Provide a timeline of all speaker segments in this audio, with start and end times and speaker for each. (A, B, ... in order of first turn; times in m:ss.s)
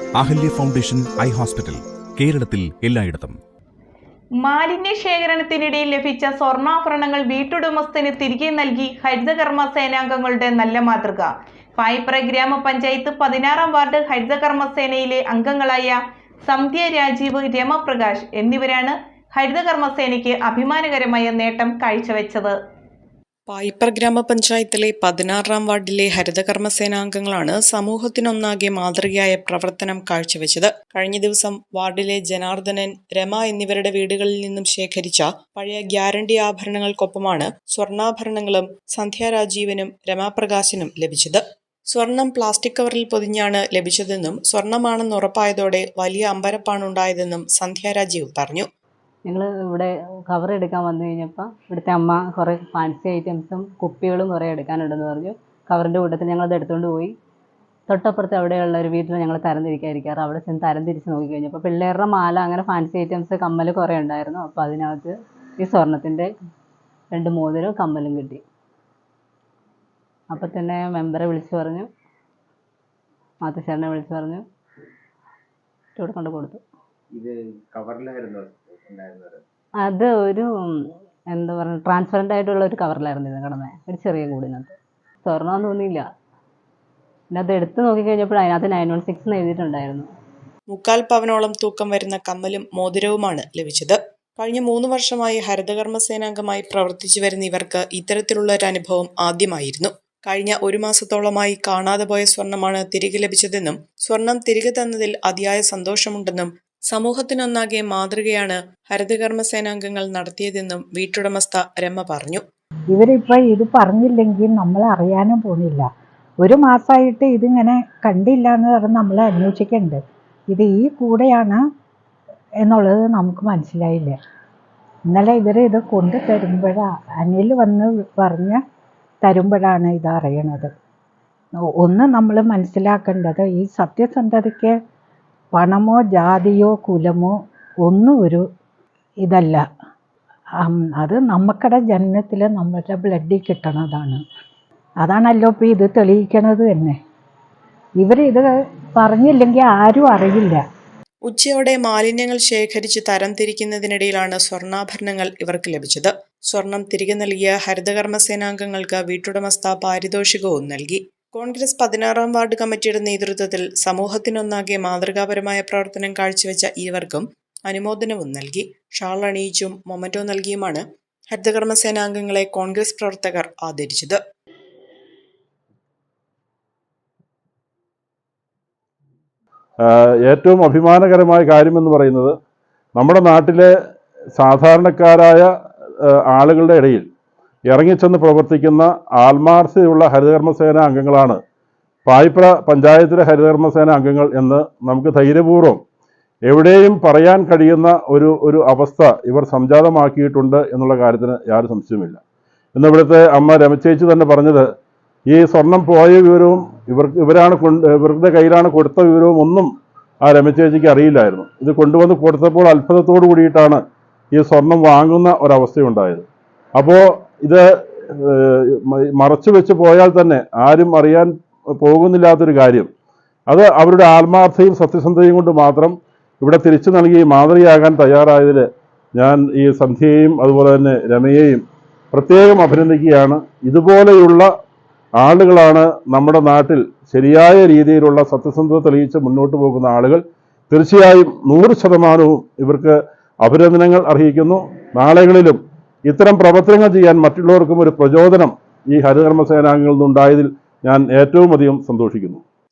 0:00.2-0:03.4 A
0:04.4-0:22.6 B
0:23.5-0:48.7 C
0:49.3-0:57.1 D
0:57.9-1:06.3 D
1:07.1-1:08.4 D
1:10.3-1:11.9 D
1:13.4-1:14.4 D
1:16.0-1:16.6 D
1:17.1-1:19.4 E
1:19.8-1:26.0 D
1:27.3-1:30.1 D
1:30.7-1:52.4 C
1:52.9-1:55.9 F
1:56.4-2:01.6 F
2:02.6-2:04.2 F
2:05.1-2:08.6 F
2:09.2-2:10.7 F
2:11.6-2:14.8 F
2:15.5-2:18.4 F
2:19.2-2:19.6 F
2:20.6-2:24.2 F
2:25.0-2:27.0 F
2:28.0-2:30.6 F
2:31.3-2:54.2 C
2:59.8-3:02.3 G
3:03.0-3:03.7 G
3:04.4-3:05.5 G
3:06.0-3:07.1 G
3:07.7-3:11.4 G
3:12.1-3:15.8 G
3:16.5-3:22.2 G
3:22.8-3:24.7 G
3:25.3-3:29.7 G
3:30.2-3:33.8 G
3:34.3-3:42.9 G
3:43.5-3:51.6 G
3:52.1-3:54.5 G
3:55.2-4:12.4 G